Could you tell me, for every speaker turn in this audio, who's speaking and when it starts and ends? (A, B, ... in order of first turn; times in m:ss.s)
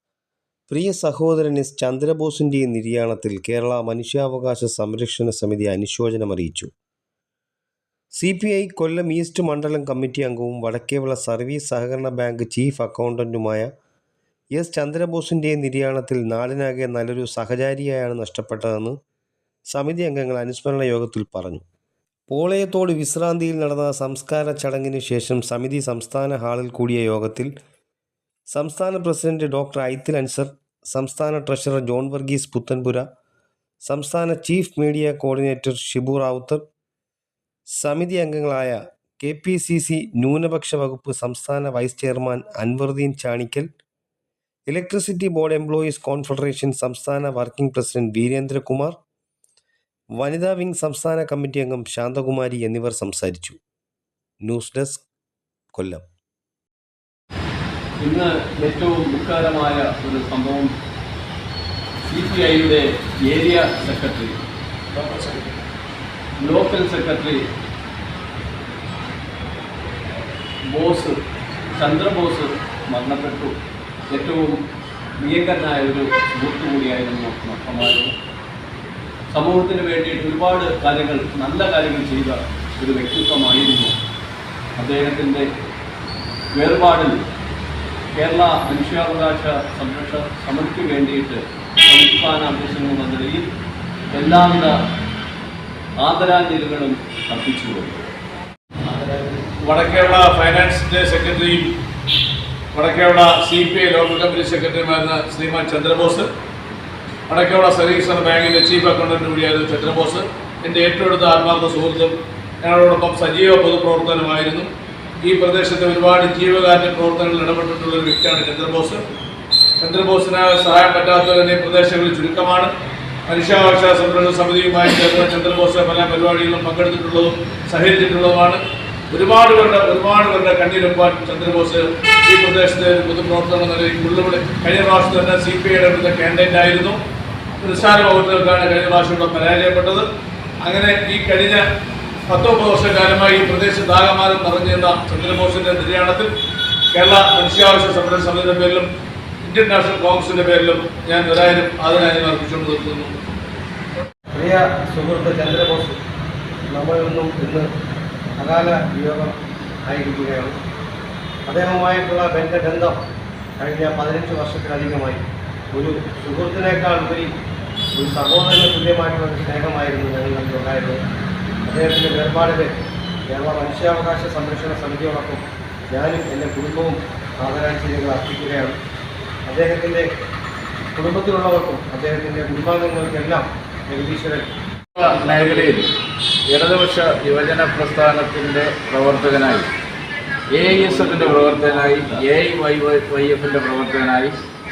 0:00.7-0:06.7 A
0:08.2-0:13.7 A
0:14.6-0:19.0 A
0:19.7-0:21.6 A
0:22.3-0:27.5 A
0:28.5-0:33.1 A
0:33.8-0:36.6 A
0:37.8-0:43.7 A
0:44.7-0:49.0 A
0:50.2-0:53.6 A
0:54.4-0:55.0 A
0:55.7-0:56.0 A
0:58.0-1:00.7 B
1:02.1-1:04.4 B
1:06.4-1:07.4 B
1:10.7-1:11.2 B
1:11.8-1:13.6 B
1:14.1-1:14.6 B
1:15.2-1:18.2 B
1:19.3-1:24.0 B
1:24.8-1:25.5 B
1:26.6-1:27.2 B
1:28.1-1:33.5 B
1:34.1-1:34.8 B
1:36.0-1:38.0 B
1:39.5-1:41.7 C
1:42.7-1:46.3 C
1:47.3-1:54.7 C
1:55.2-1:59.0 C
1:59.8-2:02.7 C
2:03.3-2:17.0 C
2:17.6-2:20.0 C
2:20.6-2:21.6 C
2:22.3-2:26.3 C
2:26.9-2:28.9 C
2:29.4-2:33.1 C
2:34.4-2:36.0 D
2:36.7-2:37.6 D
2:38.4-2:39.3 D
2:39.8-2:40.6 D
2:41.5-2:43.0 D
2:43.6-2:45.2 D
2:45.7-2:47.3 D
2:47.9-2:51.0 D
2:51.7-2:52.7 D
2:53.3-2:55.4 D
2:55.9-2:58.7 D
2:59.5-3:00.1 D
3:01.0-3:04.5 D
3:05.0-3:05.9 E
3:05.4-3:05.6 B
3:06.5-3:09.7 E
3:10.5-3:14.4 E
3:10.6-3:12.2 B